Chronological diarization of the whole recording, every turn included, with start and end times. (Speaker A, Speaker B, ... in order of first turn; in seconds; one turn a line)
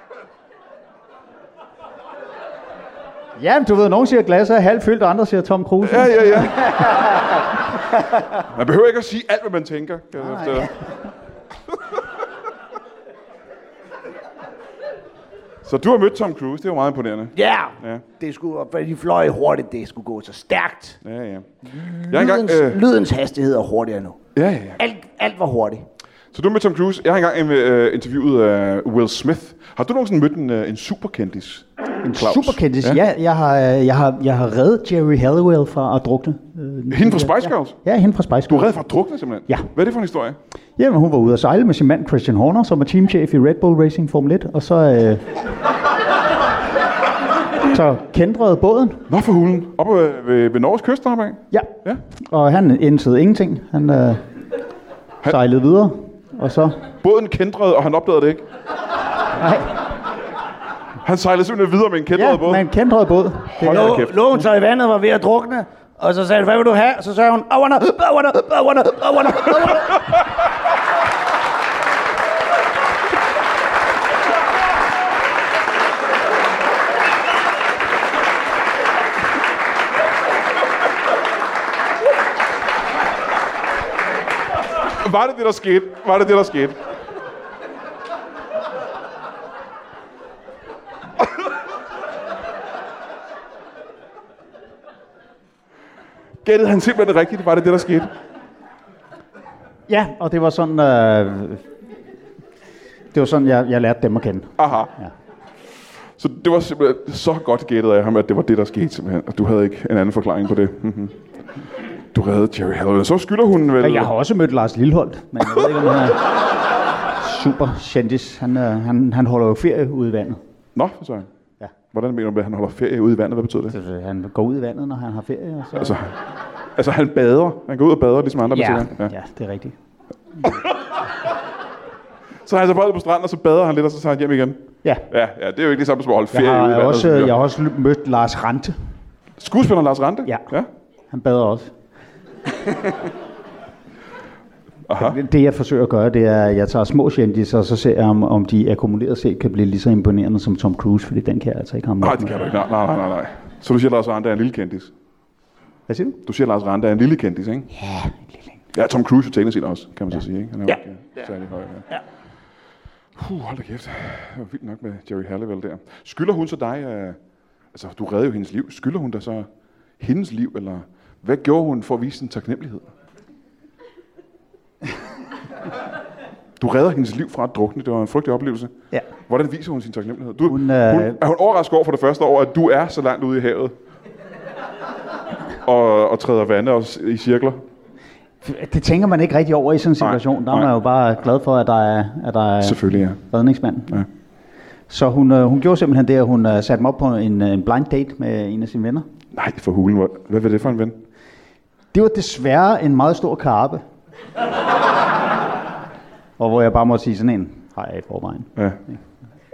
Speaker A: 3.4-7.4
Speaker B: 5.8-6.8
Speaker B: 8.4-10.8
Speaker A: 10.2-10.9
Speaker B: 15.6-18.0
Speaker C: 17.3-21.0
Speaker B: 21.0-22.8
Speaker C: 21.9-24.2
Speaker B: 24.3-24.8
Speaker C: 24.8-25.9
Speaker B: 26.3-33.0
Speaker A: 32.0-38.8
Speaker B: 36.9-37.8
Speaker B: 38.5-40.4
Speaker A: 40.8-45.3
Speaker A: 47.6-49.0
Speaker B: 49.1-52.0
Speaker A: 51.5-54.2
Speaker A: 55.3-56.8
Speaker B: 57.0-58.4
Speaker A: 59.3-59.8
Speaker B: 61.0-62.6
Speaker A: 62.1-64.0
Speaker B: 63.5-64.2
Speaker C: 63.6-70.2
Speaker B: 84.8-86.8
Speaker B: 96.4-98.1
Speaker A: 99.9-101.7
Speaker A: 103.1-105.1
Speaker B: 104.6-104.9
Speaker B: 106.2-111.2
Speaker B: 112.1-114.1
Speaker A: 113.8-116.4
Speaker A: 117.1-120.4
Speaker B: 120.7-121.3
Speaker B: 121.9-123.8
Speaker A: 123.7-126.0
Speaker B: 125.8-126.2
Speaker B: 126.8-129.1
Speaker A: 128.5-129.8
Speaker B: 130.4-131.0
Speaker B: 132.4-137.4
Speaker A: 136.3-138.7
Speaker B: 139.4-140.7
Speaker A: 141.1-141.7
Speaker B: 144.9-145.2
Speaker A: 144.9-152.4
Speaker B: 152.0-154.9
Speaker A: 155.9-156.2
Speaker B: 156.2-157.7
Speaker A: 157.7-158.4
Speaker B: 158.7-161.8
Speaker C: 160.7-161.3
Speaker B: 163.2-167.2
Speaker B: 167.7-169.5
Speaker B: 170.0-172.9
Speaker B: 176.6-178.7
Speaker B: 179.3-183.7
Speaker A: 180.5-181.2
Speaker B: 185.6-187.6
Speaker A: 188.4-194.0
Speaker B: 190.0-190.7
Speaker B: 192.6-193.2
Speaker A: 194.9-199.1
Speaker B: 199.3-201.0
Speaker A: 201.9-203.8
Speaker A: 206.4-208.9